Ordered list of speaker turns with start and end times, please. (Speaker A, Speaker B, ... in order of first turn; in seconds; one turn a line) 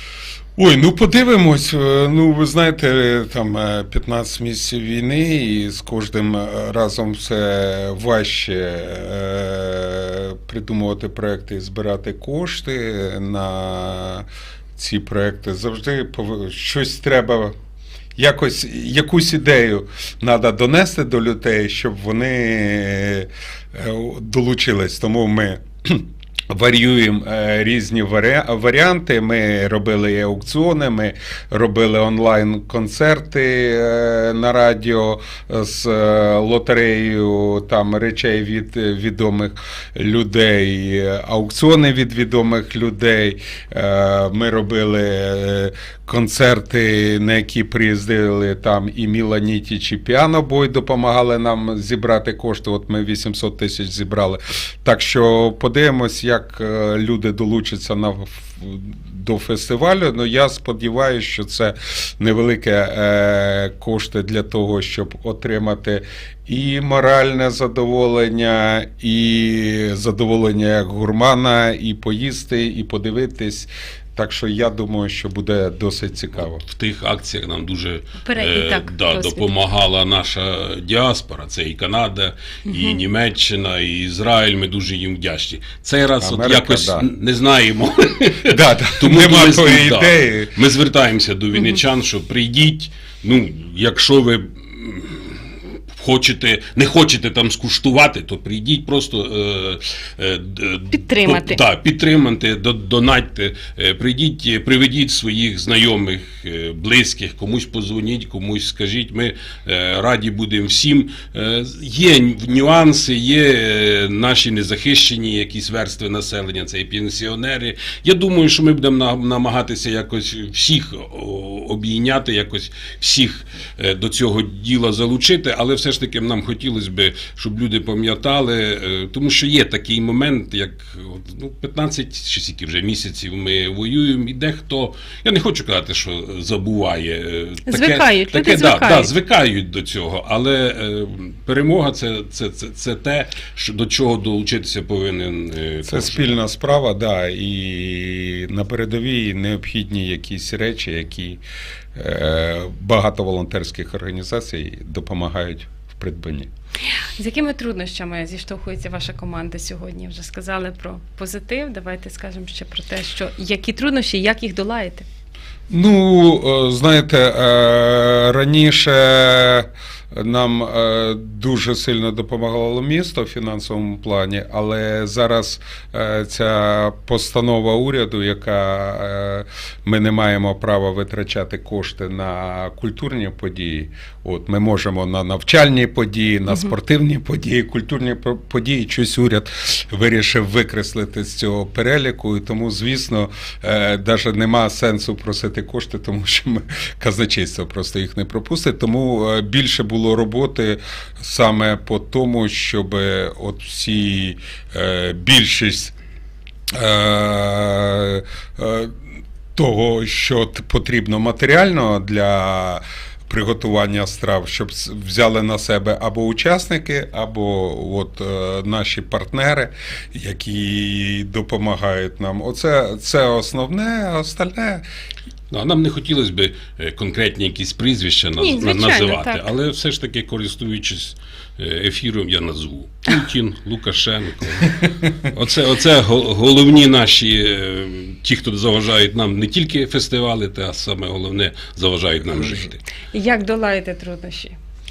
Speaker A: 0.6-17.5
Speaker A: 18.1-76.6
Speaker B: 76.6-146.3
Speaker C: 78.2-79.5
Speaker C: 82.7-83.0
Speaker A: 86.2-87.0
Speaker A: 88.5-90.5
Speaker C: 91.5-91.8
Speaker C: 100.9-101.6
Speaker C: 137.7-139.1
Speaker A: 145.9-151.4
Speaker A: 151.9-156.5
Speaker C: 157.2-165.1
Speaker A: 165.7-205.9
Speaker A: 206.7-209.0
Speaker A: 209.5-224.8
Speaker B: 225.5-242.8
Speaker C: 228.4-229.5
Speaker C: 243.1-244.6